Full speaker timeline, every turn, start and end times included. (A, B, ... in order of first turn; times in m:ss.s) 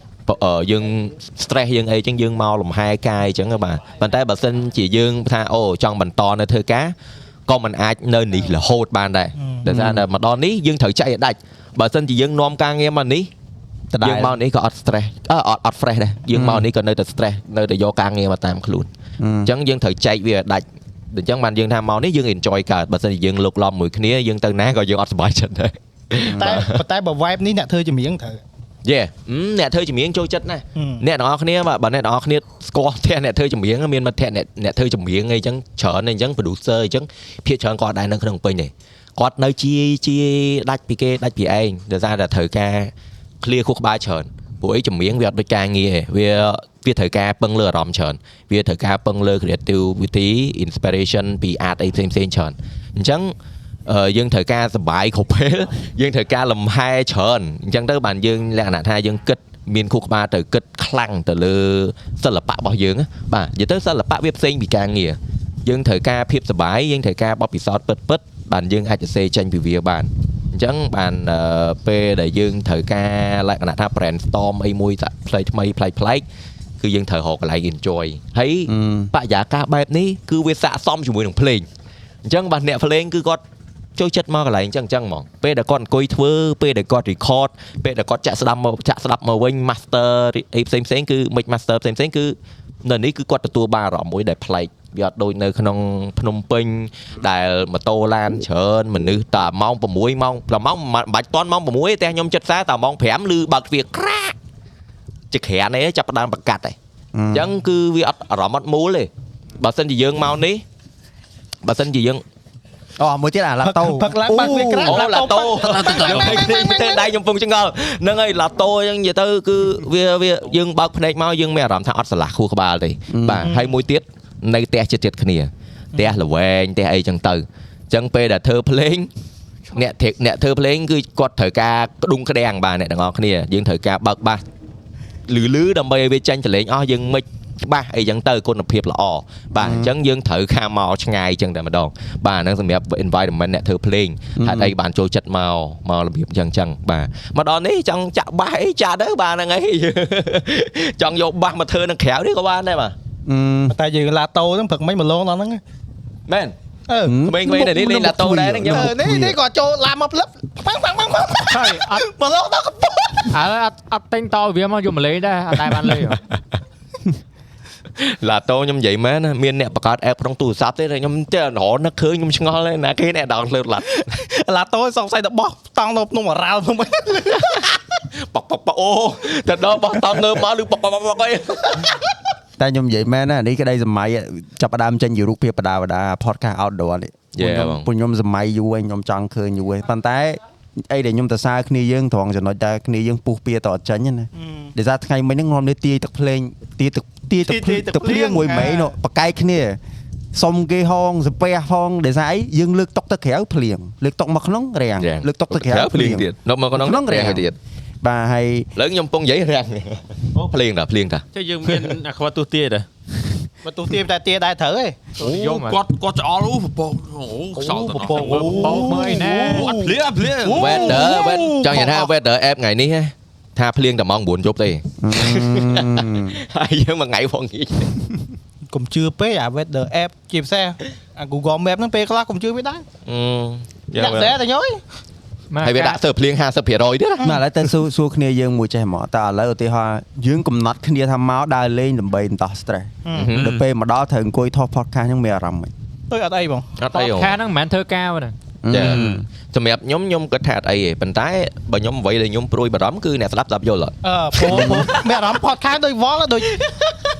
0:00.3-0:07.0 A
0:07.5-0:13.3 A
0:09.4-0:09.7 B
0:09.7-0:10.0 C
0:13.9-0:14.4 C
0:14.0-0:18.9 A
0:16.3-0:16.7 C
0:19.2-0:19.5 C
0:19.4-0:26.8 A
0:26.2-0:26.6 C
0:26.3-0:28.4 B
0:28.8-0:53.3 A
0:30.8-0:31.0 B
0:53.9-1:16.2 A
1:16.8-1:21.7 A
1:18.7-1:19.1 C
1:22.2-1:23.4 A
1:24.0-1:44.4 A
1:45.3-1:46.8 A
1:47.2-1:47.5 C
1:47.3-1:50.6 A
1:51.6-1:52.2 A
1:53.0-1:55.1 C
1:53.6-1:57.1 B
1:54.8-2:09.1 A
2:03.1-2:03.5 C
2:03.4-2:03.7 B
2:09.7-2:14.4 A
2:15.3-2:33.0 A
2:19.6-2:19.9 C
2:24.4-2:24.7 C
2:33.3-2:33.8 C
2:33.7-2:35.6 B
2:36.3-2:36.6 A
2:36.9-2:37.2 B
2:37.1-2:39.4 C
2:37.2-2:39.0 A
2:38.6-2:43.4 B
2:41.5-2:42.0 D
2:43.3-2:46.2 D
2:45.7-2:46.2 A
2:48.0-2:54.1 A
2:54.2-2:57.7 B
2:58.2-3:02.0 A
3:02.6-3:19.8 C
3:07.4-3:07.9 A
3:14.3-3:14.7 B
3:17.4-3:19.0 B
3:20.3-3:27.5 C
3:25.0-3:27.6 A
3:28.0-3:28.7 C
3:28.8-3:31.2 A
3:31.3-3:32.9 E
3:33.6-3:35.0 B
3:35.2-3:35.8 D
3:35.2-3:41.5 E
3:37.7-3:39.8 D
3:37.9-3:42.1 B
3:40.5-3:47.9 A
3:45.0-3:46.4 C
3:48.7-3:52.8 B
3:53.1-3:54.4 A
3:54.0-3:54.8 B
3:55.5-3:56.0 D
3:55.6-3:57.4 A
3:57.2-4:05.7 C
4:03.0-4:03.3 B
4:03.1-4:03.6 A
4:03.3-4:03.6 E
4:06.1-4:06.7 B
4:06.8-4:07.4 A
4:06.9-4:08.3 D
4:08.6-4:09.2 C
4:08.7-4:15.1 A
4:08.8-4:09.2 E
4:14.0-4:16.6 B
4:14.5-4:14.9 C